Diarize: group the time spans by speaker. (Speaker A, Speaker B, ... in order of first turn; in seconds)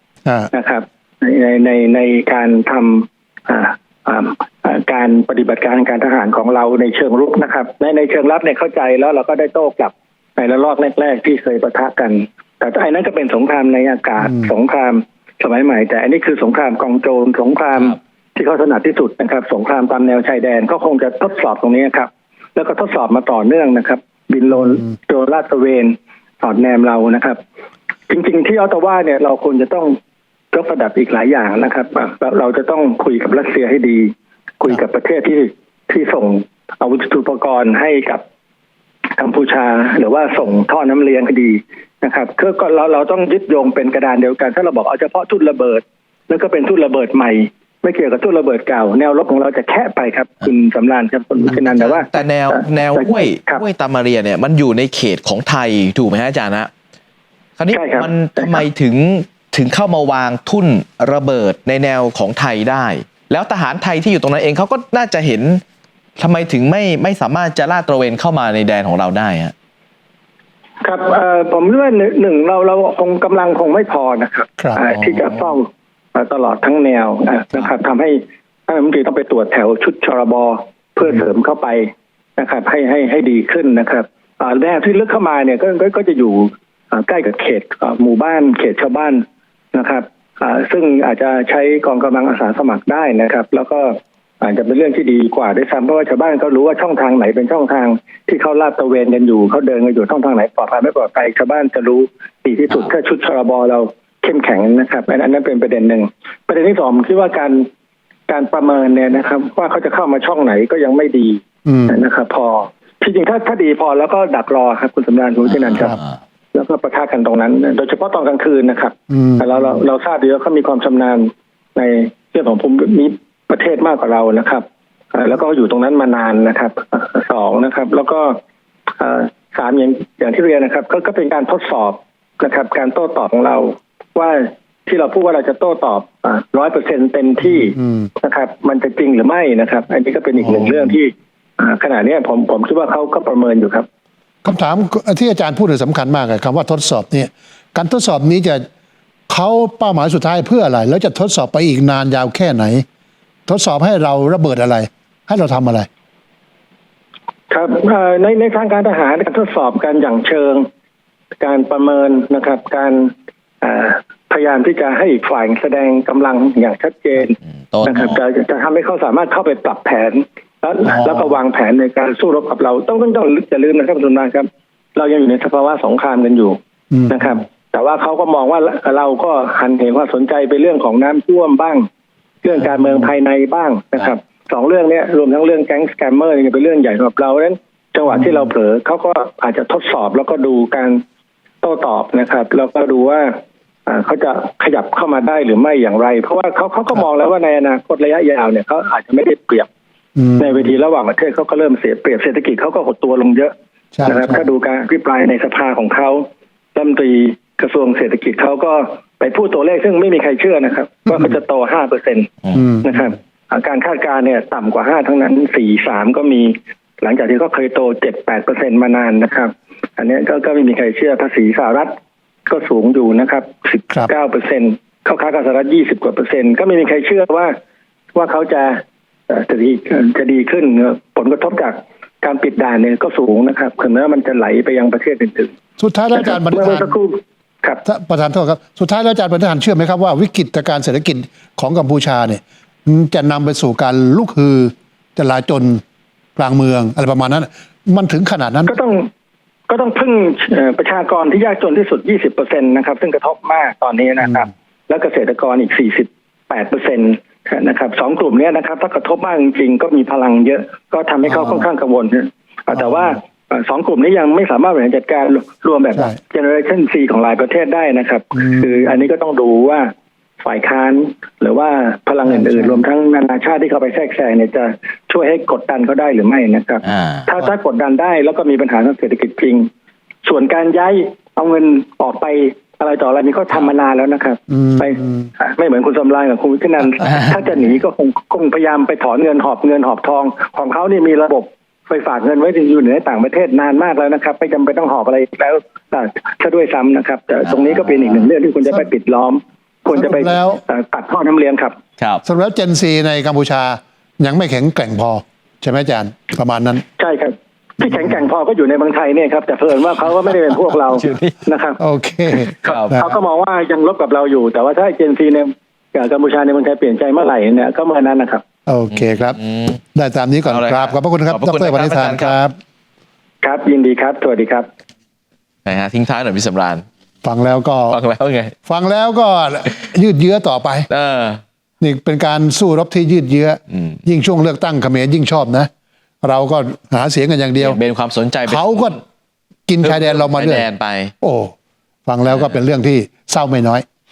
Speaker A: 0.2-0.5, 111.7-112.0, 119.1-119.6, 137.5-138.1, 140.4-140.8, 144.4-148.7, 149.3-152.8, 153.5-155.9, 176.9-177.3, 200.2-200.6, 203.9-204.4, 235.8-236.9, 237.8-245.8, 246.4-248.8, 268.4-268.6, 272.3-272.8, 284.5-285.2, 299.9-300.6, 302.2-306.9, 311.8-313.1, 318.7-319.4, 319.9-322.5, 327.2-328.0, 328.7-330.9, 331.8-335.7, 336.2-337.8, 338.5-339.0, 339.7-340.7, 341.2-341.5, 342.1-343.9
Speaker B: 0.5-27.4, 28.1-30.0, 30.5-38.2, 39.2-53.6, 57.7-58.6, 70.8-107.7, 108.3-116.0, 116.5-128.4, 129.0-143.9, 157.5-160.7, 161.4-176.6, 177.1-181.9, 182.4-191.0, 191.6-193.3, 193.9-199.7, 200.4-203.5, 204.0-221.9, 222.5-227.5, 228.2-235.5, 236.2-237.8, 248.7-249.1, 249.7-269.9, 270.4-279.7, 280.2-301.7, 307.0-311.8, 312.3-318.4, 323.4-324.7
Speaker C: 51.5-56.7, 57.6-65.6, 66.2-69.5, 167.7-168.2, 276.8-277.3, 287.0-287.3, 297.5-297.9, 311.0-311.4, 312.6-313.0, 318.9-319.8, 320.4-322.4, 325.6-326.9, 327.9-328.6, 330.9-331.4, 337.6-339.0, 339.8-341.1, 342.3-342.6